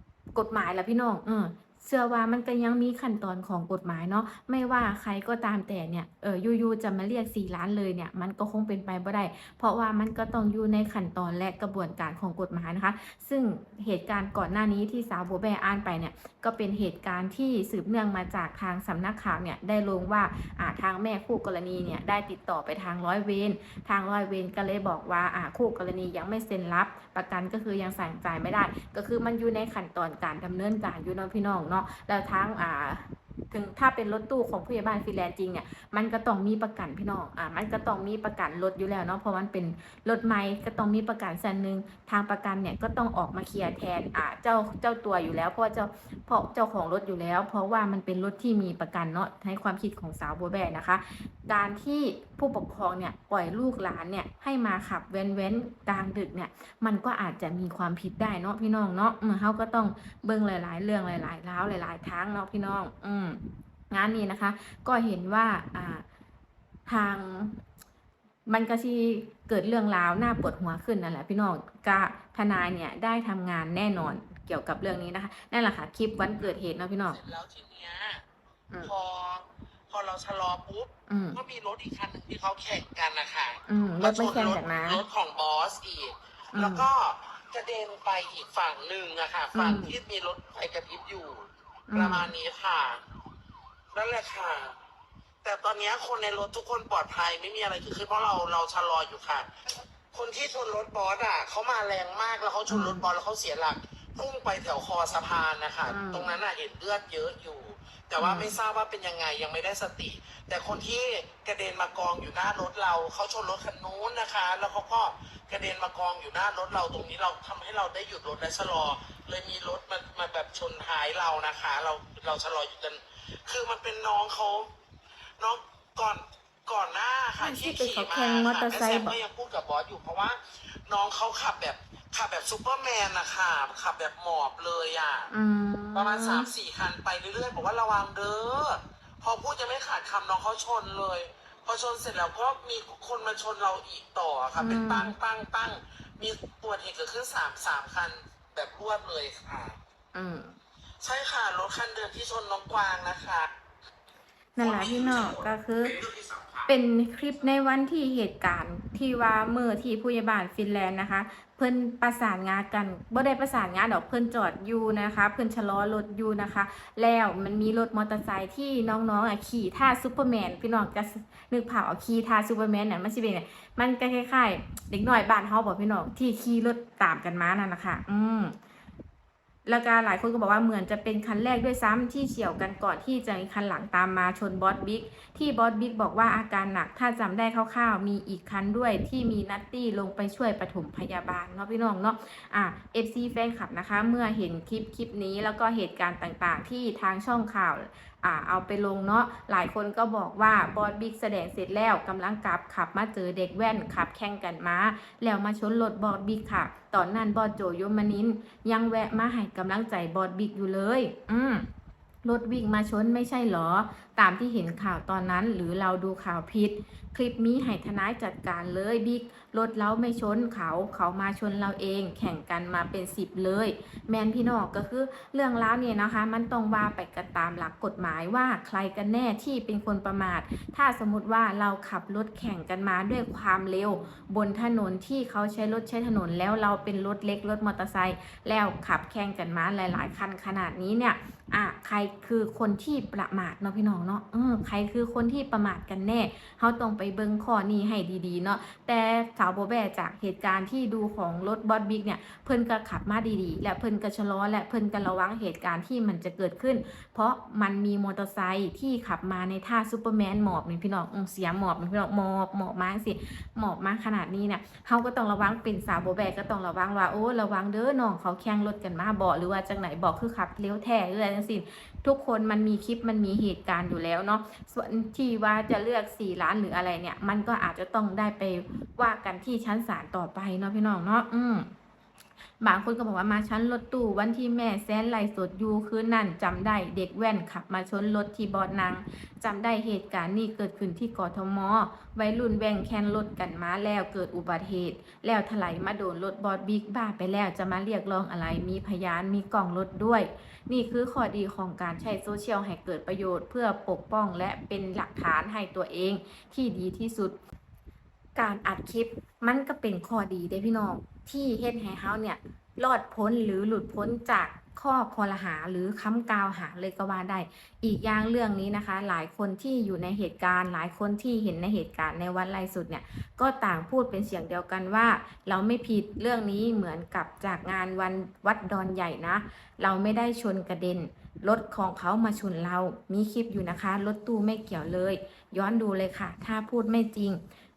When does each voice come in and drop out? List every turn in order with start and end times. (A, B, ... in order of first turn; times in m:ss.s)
0:00.4-1:06.0 A
1:06.9-1:07.6 A
1:08.5-1:17.2 A
1:17.1-1:18.2 B
1:18.8-1:33.0 B
1:21.1-1:21.4 A
1:23.7-1:25.0 A
1:26.5-1:26.8 A
1:29.5-1:29.9 A
1:31.9-1:32.3 A
1:33.9-1:34.7 B
1:35.4-1:39.5 B
1:40.1-2:04.7 B
1:42.7-1:43.1 A
1:45.9-1:46.4 A
1:48.2-1:48.6 A
2:05.4-2:15.3 B
2:07.4-2:09.2 A
2:15.3-2:16.5 A
2:16.0-2:29.8 B
2:24.6-2:25.1 A
2:30.1-2:30.6 A
2:31.0-2:33.5 B
2:34.6-2:36.0 A
2:34.6-2:36.7 B
2:36.7-2:58.6 A
2:59.7-3:31.7 A
3:32.2-4:41.7 A
4:42.6-5:07.4 A
5:08.4-5:37.4 A